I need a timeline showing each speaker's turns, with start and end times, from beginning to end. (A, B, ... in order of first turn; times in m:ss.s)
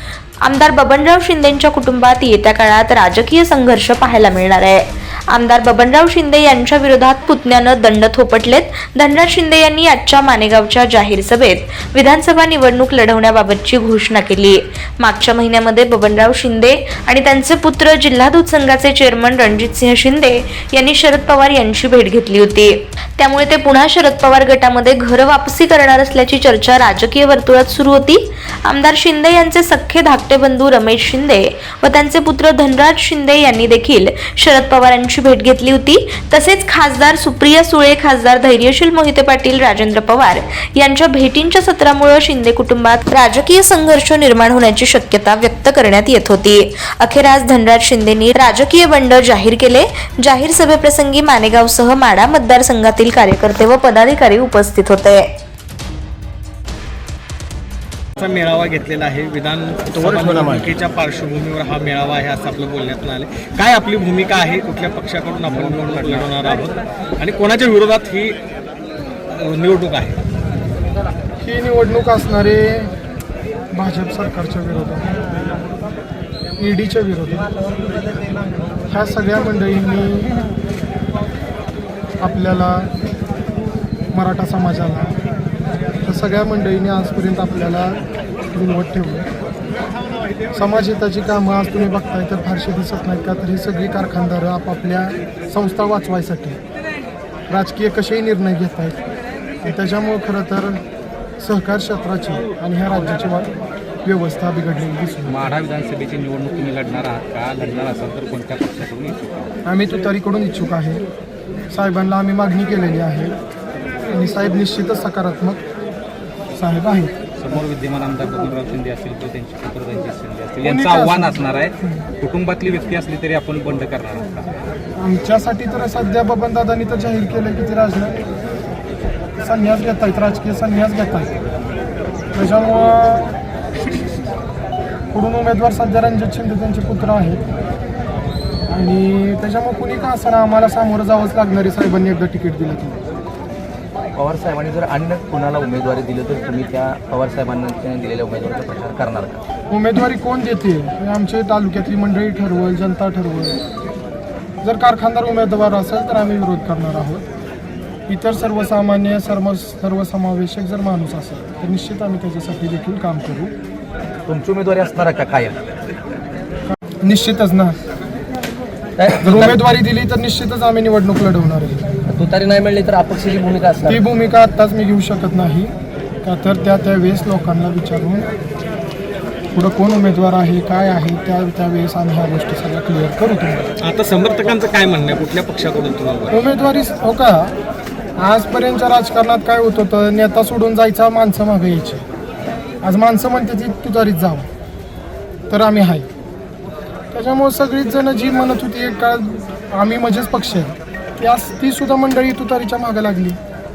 0:00.4-0:55.3 A
0:58.2-1:08.4 B
0:59.9-1:00.8 C
1:05.5-1:06.2 C
1:09.4-1:10.2 B
1:11.4-1:12.9 D
1:13.7-1:15.2 D
1:16.6-1:17.5 D
1:18.9-1:20.3 D
1:22.2-1:22.9 D
1:24.1-1:25.2 D
1:26.0-1:29.3 D
1:30.5-1:36.6 D
1:37.5-1:39.0 D
1:39.6-1:40.8 D
1:41.4-1:43.5 D
1:44.0-1:45.5 D
1:45.3-1:49.2 E
1:49.7-1:51.0 D
1:51.7-1:53.4 D
1:54.1-1:55.6 D
1:56.5-1:57.1 D
1:57.4-2:04.3 E
2:00.6-2:02.0 D
2:05.0-2:08.2 D
2:09.4-2:11.3 D
2:12.3-2:13.4 D
2:15.1-2:17.4 D
2:18.7-2:23.0 D
2:24.2-2:29.4 C
2:29.7-2:33.6 D
2:34.6-2:37.3 D
2:38.1-2:43.5 D
2:44.3-2:45.9 C
2:46.7-2:47.8 D
2:49.0-2:49.6 C
2:49.2-2:51.8 D
2:52.1-2:54.0 C
2:53.8-2:55.7 D
2:56.2-2:58.3 D
2:59.5-3:03.7 D
3:03.8-3:06.4 B
3:06.3-3:07.6 D
3:08.2-3:12.0 D
3:12.8-3:14.5 D
3:15.5-3:16.1 D
3:17.1-3:23.4 D